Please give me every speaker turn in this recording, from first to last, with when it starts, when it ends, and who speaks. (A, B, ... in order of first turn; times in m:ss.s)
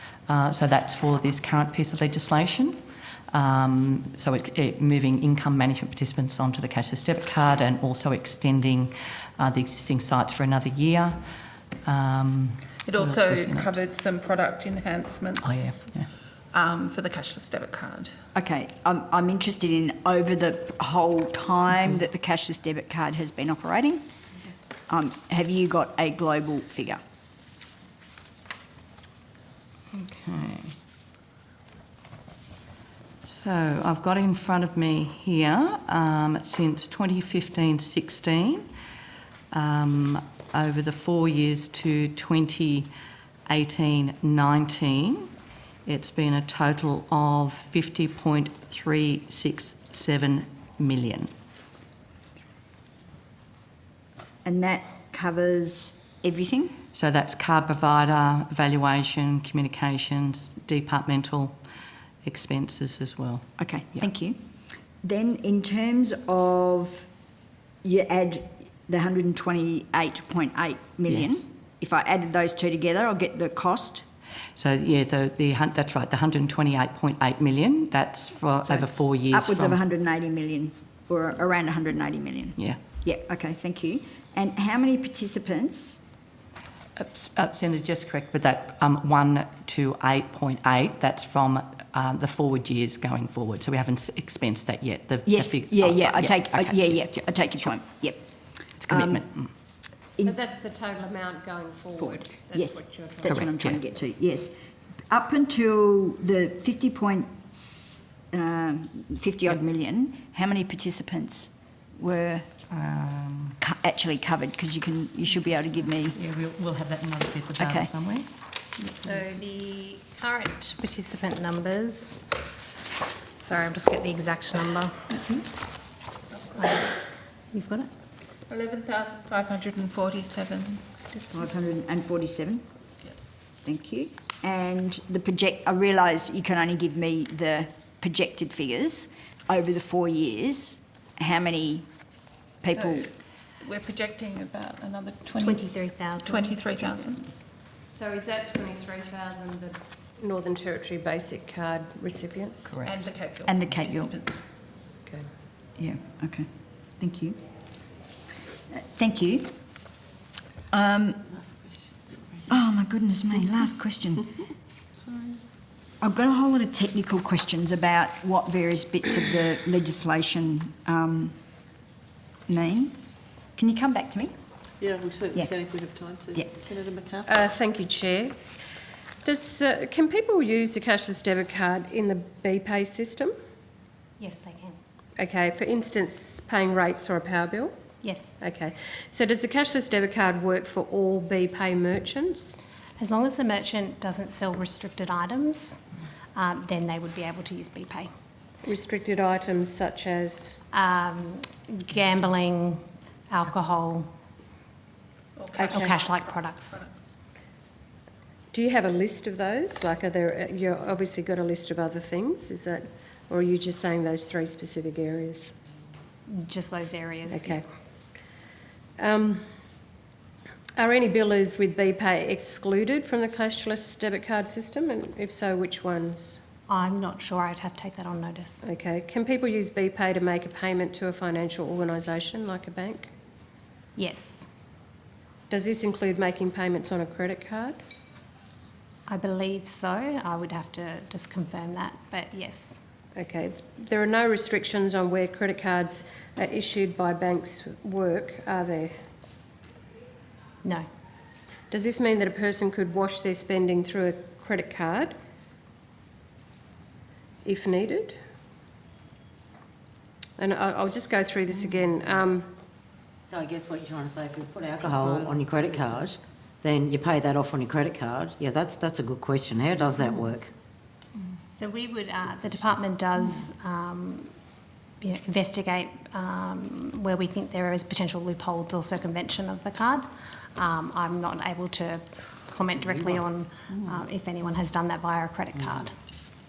0:00.3-0:02.8 A
0:03.3-0:11.2 A
0:11.8-0:13.8 A
0:12.8-0:15.9 B
0:15.4-0:16.1 A
0:16.5-0:18.1 B
0:18.3-0:24.0 C
0:24.9-0:27.0 C
0:29.9-0:30.7 A
0:33.2-0:38.7 A
0:39.5-0:42.9 A
0:43.5-0:45.3 A
0:45.8-0:51.3 A
0:54.4-0:56.8 C
0:56.9-1:01.6 A
1:02.2-1:04.1 A
1:03.6-1:04.4 C
1:05.0-1:07.1 C
1:07.8-1:14.0 C
1:11.1-1:11.4 A
1:14.6-1:19.8 A
1:18.6-1:26.0 C
1:27.0-1:37.5 A
1:35.2-1:38.2 C
1:38.8-1:39.5 A
1:38.9-1:39.2 C
1:40.2-1:43.4 D
1:42.0-1:44.5 C
1:43.3-1:43.8 A
1:45.1-1:52.5 C
1:52.7-1:53.6 A
1:53.6-1:56.2 C
1:56.1-1:58.3 A
1:57.6-1:57.9 C
1:58.9-2:02.2 E
2:03.4-2:05.4 E
2:06.3-2:06.7 B
2:06.6-2:07.0 E
2:07.5-2:07.9 E
2:08.5-2:10.8 B
2:11.1-2:12.6 C
2:13.6-2:21.9 C
2:22.6-2:23.1 C
2:22.6-2:27.3 B
2:25.3-2:26.9 E
2:27.9-2:32.8 D
2:32.6-2:33.0 A
2:32.8-2:34.4 B
2:33.4-2:34.1 C
2:35.8-2:36.5 C
2:37.0-2:37.4 C
2:38.7-2:39.5 C
2:40.7-2:41.3 C
2:42.5-2:44.3 C
2:46.0-2:51.4 C
2:52.5-2:53.0 C
2:53.6-2:54.3 C
2:54.8-2:57.3 F
2:57.2-2:58.4 D
2:59.2-3:03.3 D
3:04.2-3:04.8 E
3:05.2-3:07.8 D
3:08.0-3:08.4 E
3:08.4-3:12.6 D
3:13.0-3:15.8 E
3:16.3-3:18.1 E
3:18.6-3:20.6 D
3:20.7-3:24.1 E
3:25.4-3:27.0 B
3:25.6-3:26.0 D
3:25.6-3:26.8 E
3:28.5-3:35.5 D
3:36.3-3:37.6 E
3:37.3-3:37.6 D
3:39.0-3:39.4 D
3:40.8-3:46.4 D
3:46.7-3:48.6 E
3:48.6-3:53.1 D
3:54.0-3:54.4 E
3:55.5-3:57.8 D
3:59.1-4:02.8 E
4:03.1-4:08.9 D
4:11.7-4:15.1 D
4:17.4-4:18.2 D
4:20.4-4:22.5 D
4:23.3-4:30.5 G
4:31.5-4:34.3 E
4:35.0-4:45.9 E